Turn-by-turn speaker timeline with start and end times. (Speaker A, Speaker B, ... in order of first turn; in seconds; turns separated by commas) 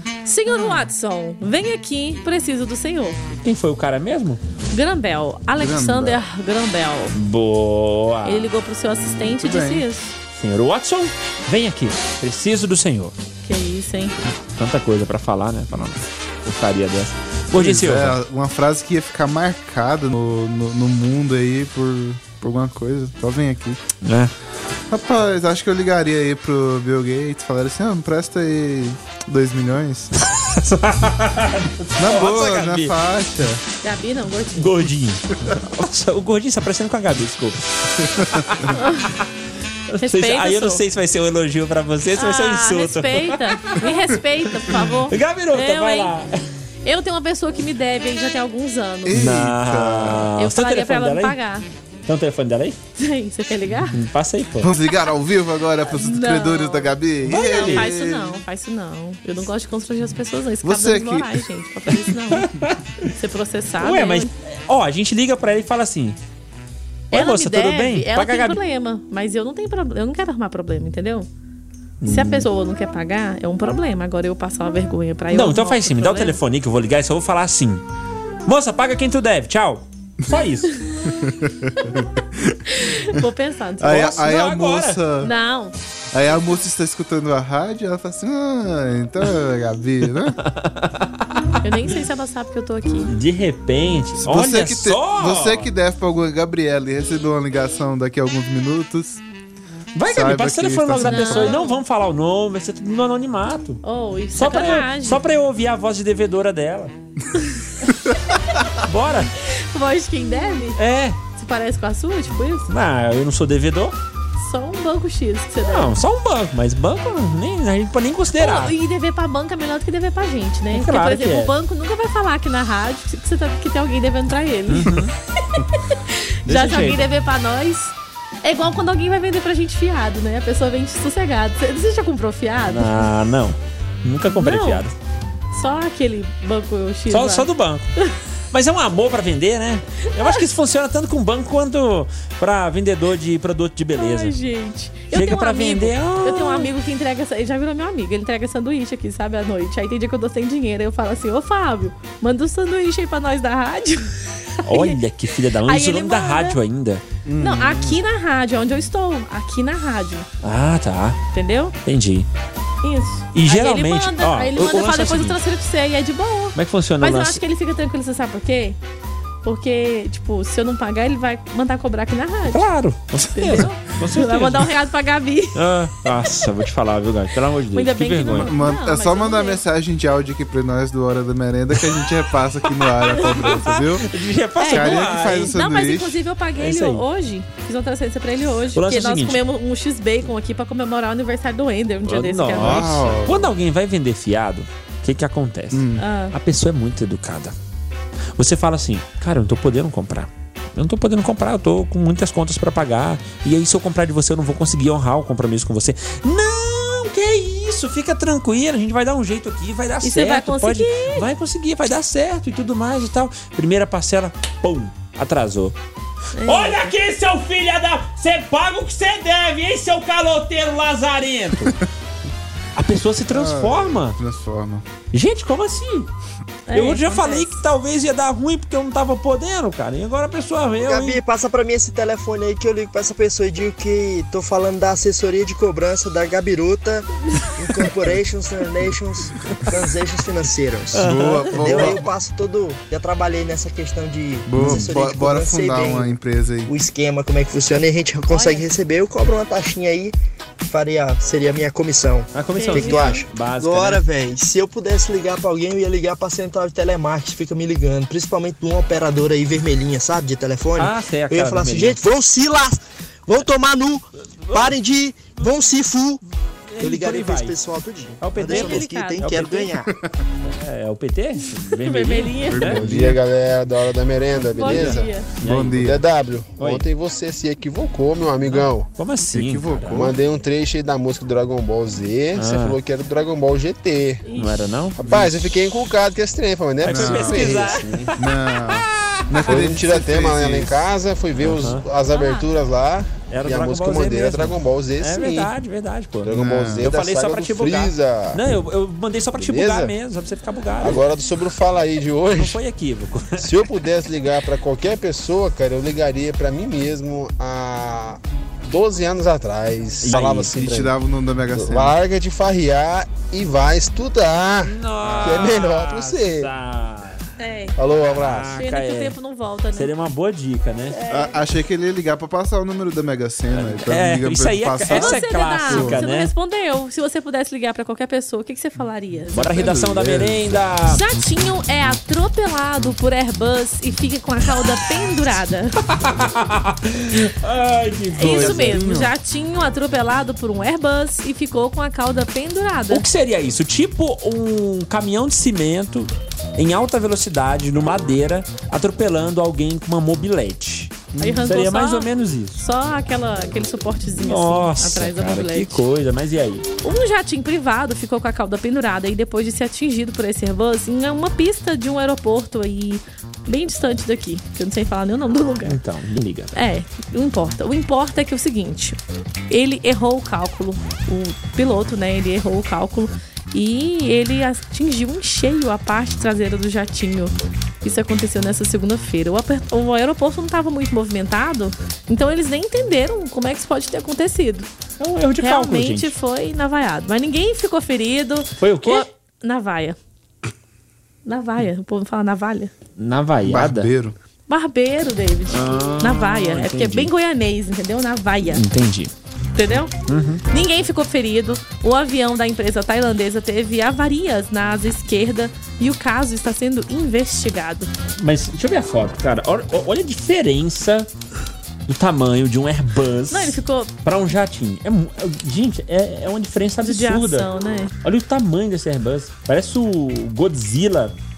Speaker A: 0.2-3.3, Speaker B: 3.4-4.4, Speaker A: 4.7-7.1, Speaker C: 5.6-6.2, Speaker B: 7.1-8.5, Speaker A: 8.2-10.1, Speaker C: 9.2-9.8, Speaker B: 10.3-13.1, Speaker A: 13.4-14.2, Speaker B: 14.5-18.2, Speaker C: 17.5-23.8, Speaker B: 24.0-24.3, Speaker C: 24.9-30.1, Speaker B: 30.4-32.9, Speaker C: 32.0-33.6, Speaker A: 33.8-34.7, Speaker B: 34.6-39.3, Speaker A: 38.7-39.1, Speaker B: 39.9-44.0, Speaker A: 40.0-40.8, Speaker A: 42.1-46.1, Speaker B: 45.1-46.3, Speaker A: 46.8-49.2, Speaker C: 49.0-50.3, Speaker B: 49.1-51.4, Speaker A: 50.4-51.6, Speaker B: 52.0-52.8, Speaker A: 53.0-54.0, Speaker B: 53.9-54.7, Speaker C: 54.6-58.4, Speaker A: 55.9-62.5, Speaker B: 57.2-57.9, Speaker C: 60.6-61.4, Speaker B: 62.3-63.1, Speaker A: 63.1-64.3, Speaker B: 63.8-66.2, Speaker B: 67.1-68.6, Speaker A: 67.1-71.3, Speaker B: 72.0-72.5, Speaker A: 72.1-76.4, Speaker B: 75.3-77.8, Speaker B: 78.5-80.7, Speaker C: 81.0-82.6, Speaker A: 82.7-84.1, Speaker C: 83.8-85.3, Speaker B: 83.8-85.0, Speaker A: 85.2-85.7, Speaker C: 86.1-90.4, Speaker B: 90.4-91.2, Speaker A: 91.6-93.1, Speaker B: 93.1-95.7, Speaker C: 94.2-99.2, Speaker B: 99.9-103.8, Speaker C: 100.0-101.6, Speaker A: 101.0-101.8, Speaker A: 103.8-105.2, Speaker B: 104.3-106.9, Speaker A: 107.4-107.6, Speaker B: 108.8-109.3, Speaker A: 109.5-110.8, Speaker B: 110.8-111.2, Speaker A: 111.3-112.7, Speaker B: 112.7-114.0, Speaker A: 114.4-116.0, Speaker B: 115.6-118.7, Speaker A: 118.4-125.0, Speaker B: 120.7-121.5, Speaker B: 124.7-125.1, Speaker A: 125.6-133.1, Speaker B: 126.5-127.1, Speaker B: 132.7-134.9, Speaker A: 134.3-134.8, Speaker A: 135.5-138.2, Speaker B: 137.1-137.9, Speaker B: 138.5-144.3, Speaker A: 140.1-140.4, Speaker A: 143.9-155.0, Speaker B: 145.1-146.7, Speaker B: 154.7-157.0, Speaker A: 155.6-156.6, Speaker C: 157.2-158.0, Speaker A: 157.4-160.3, Speaker B: 160.4-161.2, Speaker A: 161.3-161.7, Speaker B: 161.8-162.3, Speaker A: 162.8-168.8, Speaker B: 163.3-165.4, Speaker B: 166.5-167.4, Speaker A: 169.4-172.6, Speaker B: 172.5-174.7, Speaker A: 173.3-175.6, Speaker B: 175.5-178.5, Speaker A: 177.7-179.6, Speaker C: 178.3-184.1, Speaker B: 182.8-185.6, Speaker A: 184.6-193.0, Speaker C: 184.6-186.2, Speaker B: 186.6-187.0, Speaker B: 188.7-189.4, Speaker B: 192.1-197.5, Speaker C: 192.5-193.5, Speaker C: 195.7-196.0, Speaker A: 196.0-196.3, Speaker B: 198.3-215.8, Speaker A: 210.0-211.2, Speaker A: 216.3-216.9, Speaker B: 216.4-221.8, Speaker B: 222.8-224.2, Speaker C: 223.3-224.8, Speaker B: 225.1-226.1, Speaker A: 226.7-227.6, Speaker B: 226.7-231.2, Speaker D: 230.8-246.2, Speaker B: 240.9-241.9, Speaker C: 240.9-242.0, Speaker C: 244.5-246.7, Speaker B: 244.6-244.9, Speaker D: 246.7-266.2, Speaker A: 248.3-248.7, Speaker B: 252.3-254.0, Speaker A: 252.6-253.2, Speaker B: 260.8-262.0, Speaker B: 266.7-267.6, Speaker D: 266.8-269.9, Speaker B: 268.2-269.8, Speaker A: 268.5-269.3, Speaker B: 270.4-272.9, Speaker A: 271.8-272.7, Speaker C: 272.5-273.2, Speaker E: 272.6-275.1, Speaker A: 274.5-275.3, Speaker B: 274.6-276.0, Speaker C: 275.4-276.0, Speaker E: 275.8-278.9, Speaker B: 276.6-276.8, Speaker B: 278.5-280.1, Speaker C: 279.3-280.1, Speaker E: 279.9-284.2, Speaker B: 282.3-282.8, Speaker A: 284.2-284.6, Speaker B: 284.3-285.3, Speaker E: 285.0-288.1, Speaker B: 286.8-289.6, Speaker C: 286.8-290.8, Speaker E: 289.4-295.5, Speaker B: 291.4-291.8, Speaker A: 292.1-292.5, Speaker B: 293.3-301.0, Speaker E: 296.2-298.4, Speaker C: 296.3-296.9, Speaker E: 299.4-299.9, Speaker E: 300.8-302.6, Speaker B: 302.3-303.5, Speaker E: 303.4-310.9, Speaker B: 310.0-310.5, Speaker C: 310.5-311.9, Speaker E: 311.5-316.5, Speaker B: 314.6-317.2, Speaker A: 317.4-317.7, Speaker E: 317.8-318.6, Speaker B: 318.0-319.1, Speaker A: 318.6-319.9, Speaker B: 319.7-321.0, Speaker A: 320.9-321.4, Speaker C: 321.1-326.0, Speaker B: 323.5-326.3, Speaker A: 324.9-329.6, Speaker B: 329.3-331.0, Speaker C: 329.5-330.6, Speaker A: 330.9-335.8, Speaker B: 335.9-338.9, Speaker A: 338.1-343.1, Speaker C: 338.2-339.1, Speaker B: 342.9-352.6, Speaker C: 351.1-351.4, Speaker A: 351.2-355.8, Speaker B: 354.2-356.6, Speaker A: 356.8-365.8, Speaker B: 365.6-366.5, Speaker A: 366.5-369.0, Speaker A: 369.5-384.7, Speaker B: 385.0-386.1, Speaker A: 385.4-390.0, Speaker B: 388.6-389.1, Speaker A: 391.2-392.7, Speaker B: 393.0-393.9, Speaker C: 393.4-394.1, Speaker A: 394.5-398.6, Speaker B: 395.5-397.1, Speaker B: 398.4-399.1, Speaker A: 399.6-399.9, Speaker B: 400.1-400.4, Speaker A: 400.5-407.9, Speaker B: 408.2-411.1, Speaker B: 411.9-417.5, Speaker A: 413.3-413.9, Speaker A: 416.8-417.9, Speaker B: 418.0-421.1